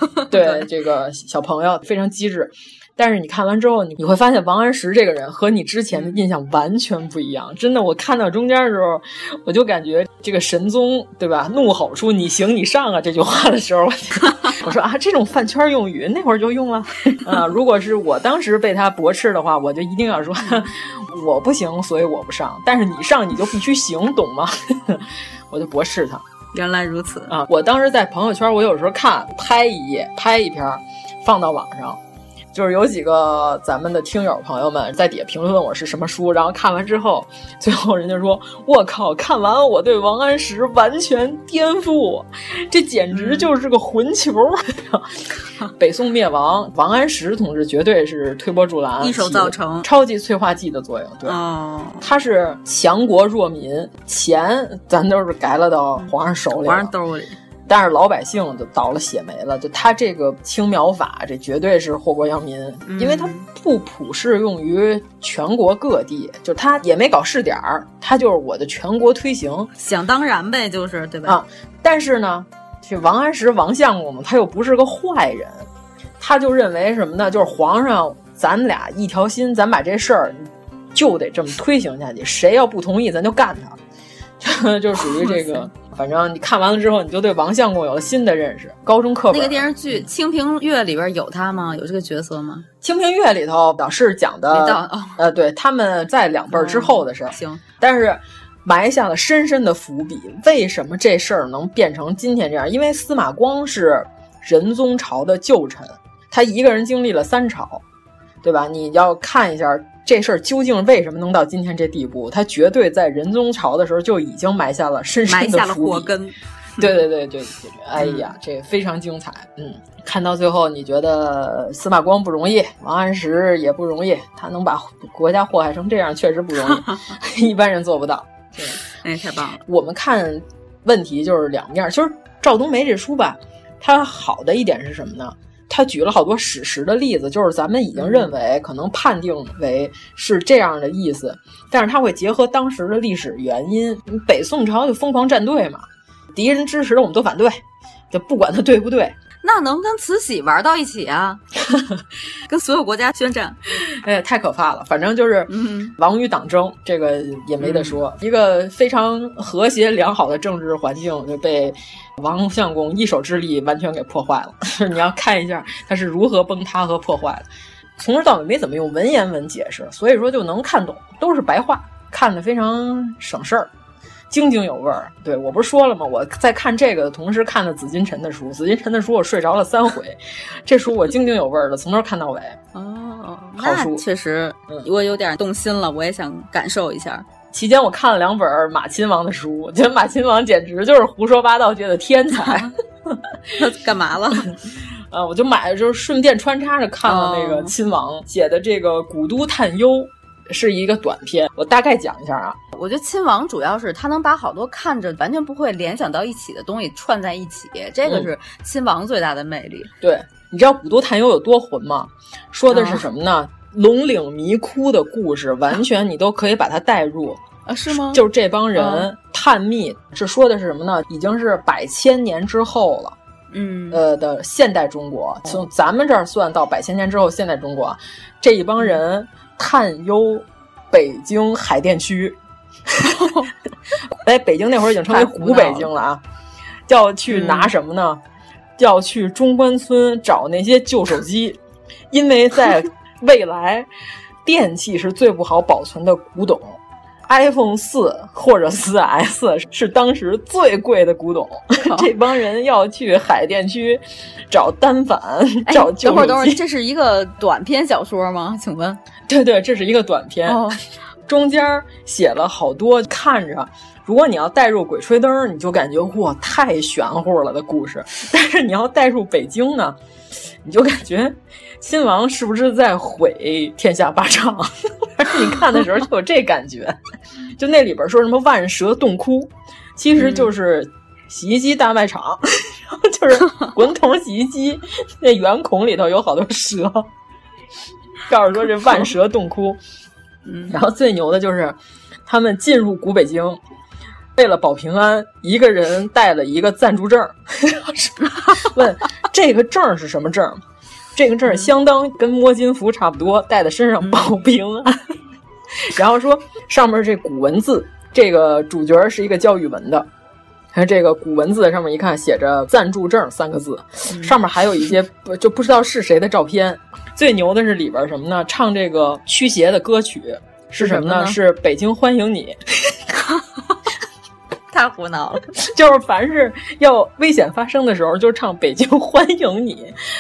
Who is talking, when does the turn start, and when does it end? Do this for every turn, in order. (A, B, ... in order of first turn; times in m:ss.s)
0:00.2-0:00.6 A
0:00.3-0:26.2 B
0:05.9-0:06.2 A
0:26.5-0:27.4 A
0:27.3-0:32.0 B
0:32.5-0:45.1 B
0:43.1-0:43.5 A
0:45.8-0:51.4 B
0:49.0-0:49.9 A
0:51.2-0:52.1 A
0:52.0-0:56.9 B
0:56.0-0:57.4 A
0:57.7-1:09.7 B
1:02.8-1:03.4 A
1:09.8-1:11.4 A
1:11.2-1:15.7 B
1:16.2-1:23.8 B
1:24.4-1:29.7 B
1:25.2-1:25.7 A
1:29.3-1:32.6 A
1:32.8-1:47.8 B
1:34.5-1:35.2 A
1:36.5-1:37.6 A
1:48.4-1:56.1 B
1:55.3-1:56.9 A
1:56.8-2:08.8 B
1:58.0-1:58.3 A
2:06.6-2:07.0 A
2:09.0-2:09.6 A
2:09.7-2:29.2 B
2:18.0-2:18.3 A
2:29.4-2:31.4 A
2:32.5-2:33.6 A
2:33.8-2:47.4 B
2:35.5-2:35.9 A
2:37.6-2:38.0 A
2:48.0-2:53.7 B
2:54.3-3:02.6 B
3:02.7-3:07.2 A
3:03.6-3:04.0 B
3:07.5-3:13.2 B
3:12.3-3:12.7 A
3:13.6-3:14.5 A
3:15.1-3:22.6 B
3:17.0-3:17.7 A
3:22.7-3:29.9 A
3:28.0-3:28.3 B
3:30.0-3:37.4 B
3:32.7-3:33.0 A
3:37.6-3:38.2 A
3:37.9-3:43.2 B
3:38.7-3:39.1 A
3:43.5-3:44.0 A
3:43.9-3:52.4 B
3:52.9-3:53.2 B
3:53.0-3:53.5 A
3:54.2-3:56.2 B
3:55.1-3:55.9 A
3:56.9-3:58.2 B
3:57.3-3:57.7 A
3:58.8-4:01.6 B
4:02.1-4:03.9 B
4:04.4-4:16.6 B
4:11.8-4:12.1 A
4:15.7-4:19.0 A
4:19.3-4:20.7 B
4:20.4-4:20.8 A
4:21.3-4:30.0 B
4:30.6-4:37.0 B
4:37.6-4:47.1 B
4:40.2-4:40.5 A
4:48.3-4:49.8 B
4:50.4-4:50.8 A
4:50.7-4:53.6 B
4:54.3-5:00.6 B
5:01.1-5:05.0 B
5:04.0-5:04.3 A
5:05.9-5:10.1 B
5:10.7-5:22.9 B
5:14.1-5:14.4 A
5:20.8-5:21.4 A
5:24.7-5:25.4 A
5:25.6-5:30.0 B